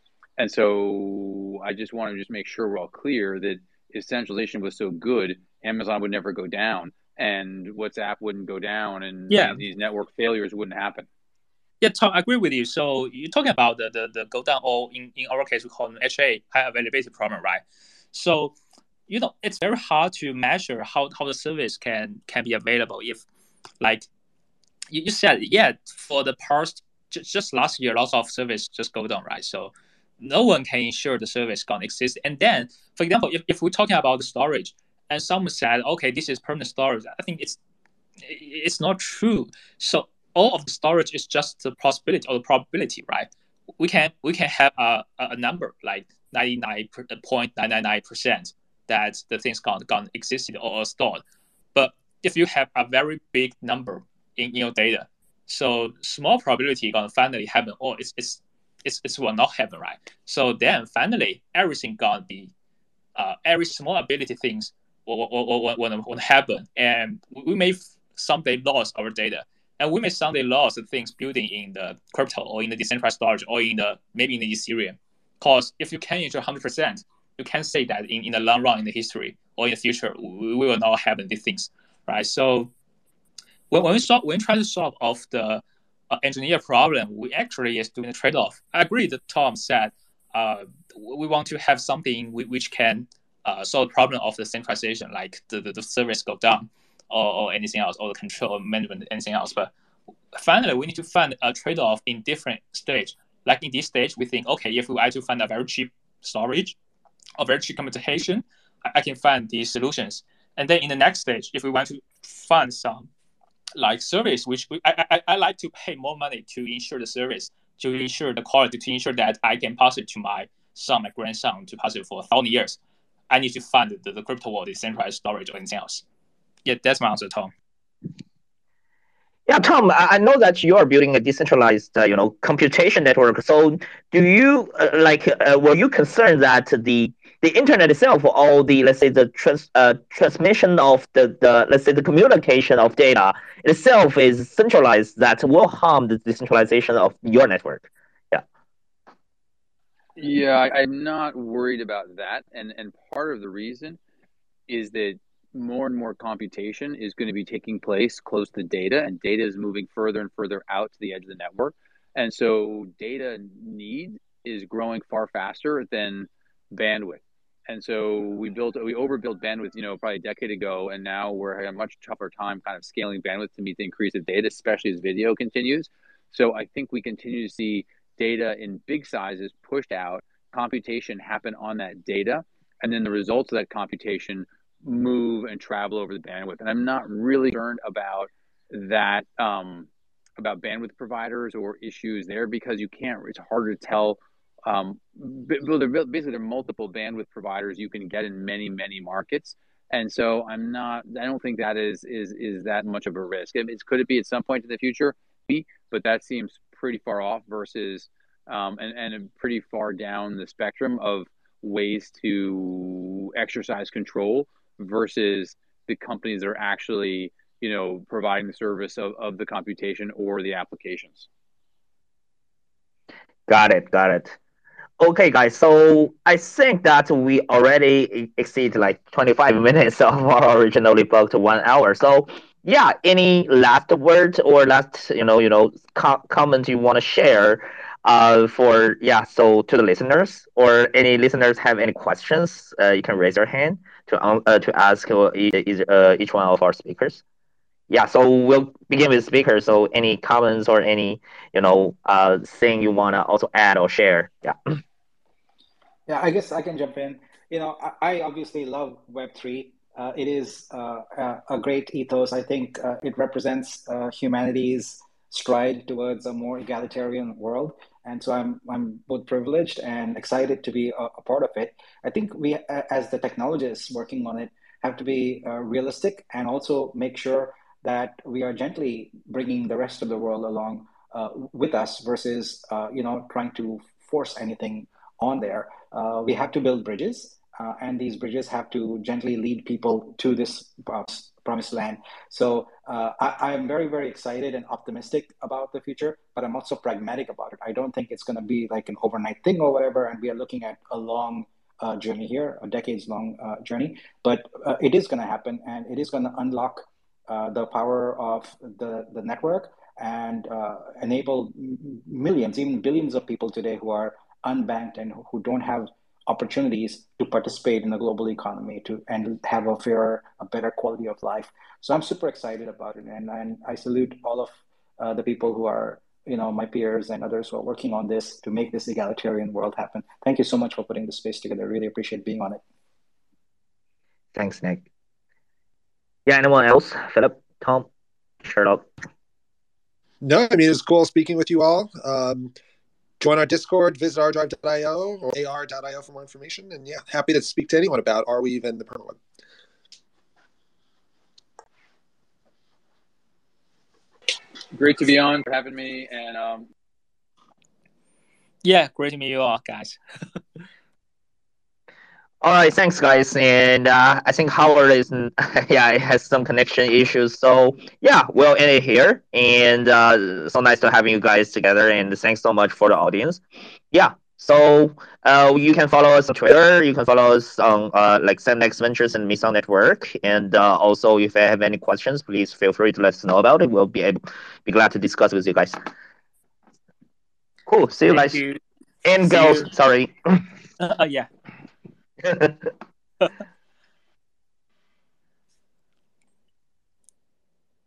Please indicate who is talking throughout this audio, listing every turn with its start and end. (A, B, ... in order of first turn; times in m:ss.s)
0:00.4-0:11.1 A
0:09.3-0:09.6 B
0:11.8-0:18.5 B
0:19.1-0:23.2 B
0:23.8-0:24.1 B
0:24.9-0:37.6 B
0:38.2-0:43.3 B
0:43.8-0:51.2 B
0:51.7-1:02.5 B
1:03.2-1:22.7 B
1:23.7-1:39.7 B
1:40.3-1:46.8 B
1:47.4-1:53.1 B
1:53.8-2:02.8 B
2:03.3-2:06.0 B
2:06.6-2:07.5 B
2:09.5-2:28.4 C
2:30.2-2:34.0 A
2:34.7-3:41.3 A
3:43.5-3:44.4 C
3:45.0-4:07.2 C
4:07.9-4:14.8 C
4:16.1-5:32.6 D
5:34.3-5:34.8 C
5:36.2-5:37.9 C
5:38.4-5:38.9 C
5:40.2-5:42.5 E
5:43.2-5:49.2 E
5:54.7-5:56.7 A
5:58.6-6:00.0 B
6:02.4-6:25.8 C
6:27.6-6:28.4 C
6:28.1-6:28.6 B
6:29.0-6:30.4 C
6:29.2-6:29.7 B
6:30.8-6:31.3 B
6:32.2-6:32.5 C